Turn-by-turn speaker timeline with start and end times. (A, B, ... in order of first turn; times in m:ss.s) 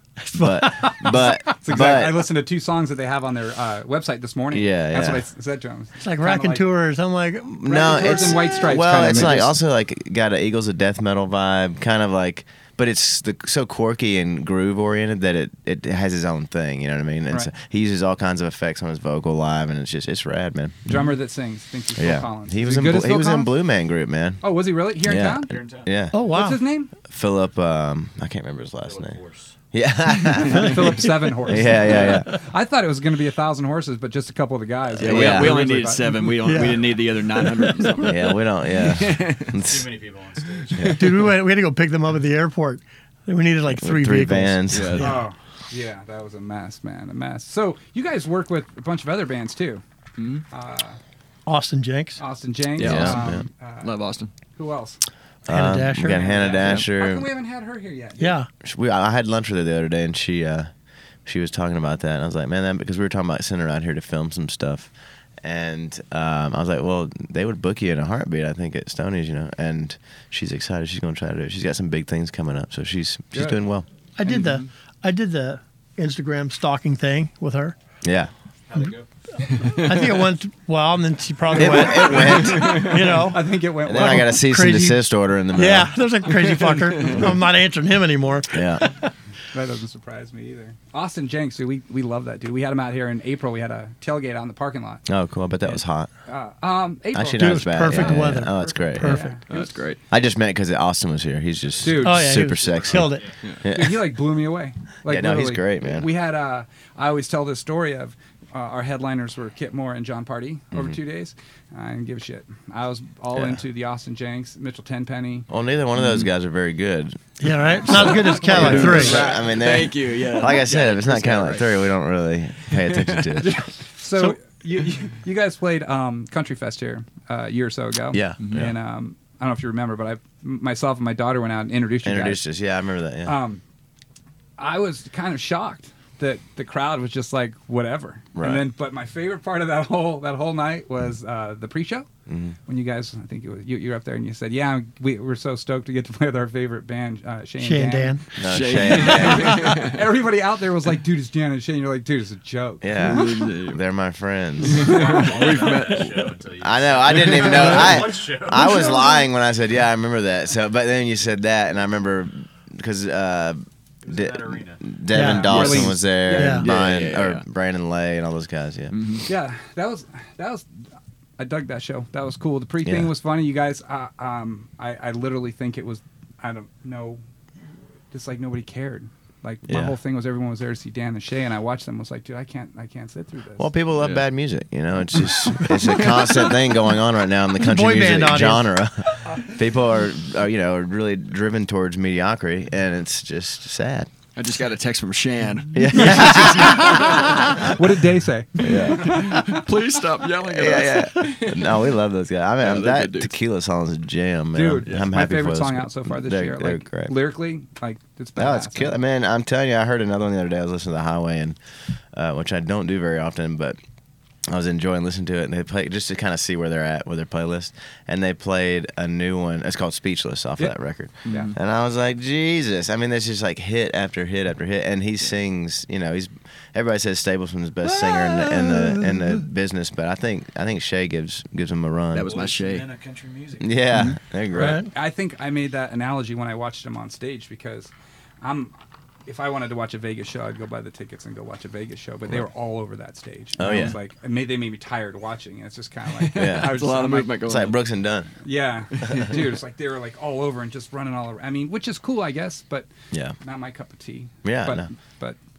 0:00.3-0:01.3 A
0:00.4-0:02.2 B
0:01.6-0:06.7 C
0:04.5-0:05.3 B
0:06.0-0:07.7 A
0:07.5-0:21.1 B
0:07.6-0:09.5 C
0:20.9-0:23.6 C
0:22.0-0:24.4 B
0:24.4-0:25.6 C
0:25.0-0:26.2 B
0:25.5-0:25.9 D
0:26.1-0:26.6 A
0:26.2-0:26.9 C
0:27.1-0:29.2 B
0:28.8-0:29.6 D
0:29.7-0:32.3 B
0:30.3-0:36.6 C
0:35.0-0:35.6 B
0:35.0-0:39.6 E
0:36.4-0:36.9 A
0:37.6-0:38.0 A
0:38.0-0:39.9 B
0:39.6-0:41.2 D
0:40.8-0:41.0 B
0:40.8-0:41.2 E
0:41.0-0:45.3 A
0:43.8-0:45.0 B
0:44.7-0:45.1 E
0:45.0-0:49.8 C
0:50.2-0:50.4 E
0:50.5-0:51.0 C
0:51.5-0:52.2 A
0:52.2-0:53.9 C
0:52.8-0:54.3 E
0:52.8-0:53.5 B
0:54.6-0:55.0 C
0:55.5-0:57.3 B
0:55.5-0:56.3 A
0:56.0-0:58.4 C
0:56.6-0:56.9 E
0:58.2-0:58.5 A
0:58.6-1:00.7 B
1:01.2-1:04.9 B
1:05.4-1:13.9 B
1:13.3-1:13.6 C
1:14.2-1:17.8 A
1:14.2-1:14.6 C
1:18.0-1:18.3 B
1:18.7-1:19.1 D
1:19.6-1:20.2 E
1:19.8-1:28.8 A
1:21.6-1:22.8 B
1:22.1-1:22.9 E
1:22.4-1:24.4 C
1:23.8-1:25.9 B
1:28.5-1:28.9 B
1:29.5-1:35.0 C
1:35.1-1:36.1 B
1:35.6-1:39.7 C
1:37.1-1:39.2 B
1:37.4-1:39.4 A
1:39.5-1:40.0 E
1:40.1-1:44.1 B
1:41.8-1:42.4 C
1:42.0-1:43.3 A
1:42.5-1:43.4 D
1:43.7-1:55.5 C
1:45.1-1:46.1 B
1:50.7-1:51.0 B
1:53.3-1:53.6 B
1:55.5-1:57.2 B
1:56.0-1:56.3 E
1:57.4-1:59.3 A
1:57.8-2:03.6 B
1:57.9-1:59.3 C
1:58.3-2:01.7 E
2:02.7-2:03.4 E
2:03.4-2:12.5 C
2:08.1-2:08.7 B
2:08.4-2:08.7 E
2:12.0-2:13.4 B
2:13.2-2:13.6 C
2:14.6-2:22.1 C
2:18.4-2:18.6 B
2:22.3-2:22.6 B
2:22.7-2:33.5 C
2:27.6-2:28.5 A
2:28.4-2:29.5 B
2:28.5-2:30.0 E
2:32.8-2:34.9 B
2:33.0-2:33.8 E
2:34.6-2:36.4 E
2:34.8-2:39.2 D
2:34.8-2:35.3 C
2:36.6-2:49.0 B
2:37.1-2:38.0 E
2:44.0-2:44.9 D
2:45.1-2:46.7 A
2:45.2-2:46.7 C
2:46.7-2:47.5 E
2:48.9-2:49.3 E
2:49.3-2:50.7 C
2:51.4-2:57.2 C
2:52.8-2:53.1 B
2:58.1-3:03.7 C
2:59.7-3:00.0 B
3:03.6-3:14.1 B
3:04.0-3:04.2 E
3:05.8-3:06.6 E
3:07.6-3:08.6 A
3:14.4-3:17.4 E
3:15.8-3:17.8 B
3:17.4-3:19.4 C
3:18.6-3:19.2 B
3:18.6-3:21.8 E
3:20.4-3:27.2 B
3:22.6-3:23.3 E
3:24.5-3:29.0 C
3:28.4-3:31.6 B
3:32.1-3:33.8 B
3:34.5-3:52.3 B
3:41.3-3:41.6 C
3:41.3-3:41.6 E
3:47.8-3:49.4 A
3:52.1-3:52.9 E
3:52.2-3:53.8 D
3:53.6-3:54.8 B
3:54.6-3:54.9 A
3:54.6-3:58.7 C
3:59.3-4:07.4 C
4:03.6-4:04.0 B
4:06.2-4:07.8 E
4:06.3-4:06.8 B
4:07.4-4:08.3 B
4:08.4-4:12.9 C
4:09.1-4:09.4 E
4:13.1-4:13.4 B
4:13.4-4:15.4 C
4:14.4-4:14.9 B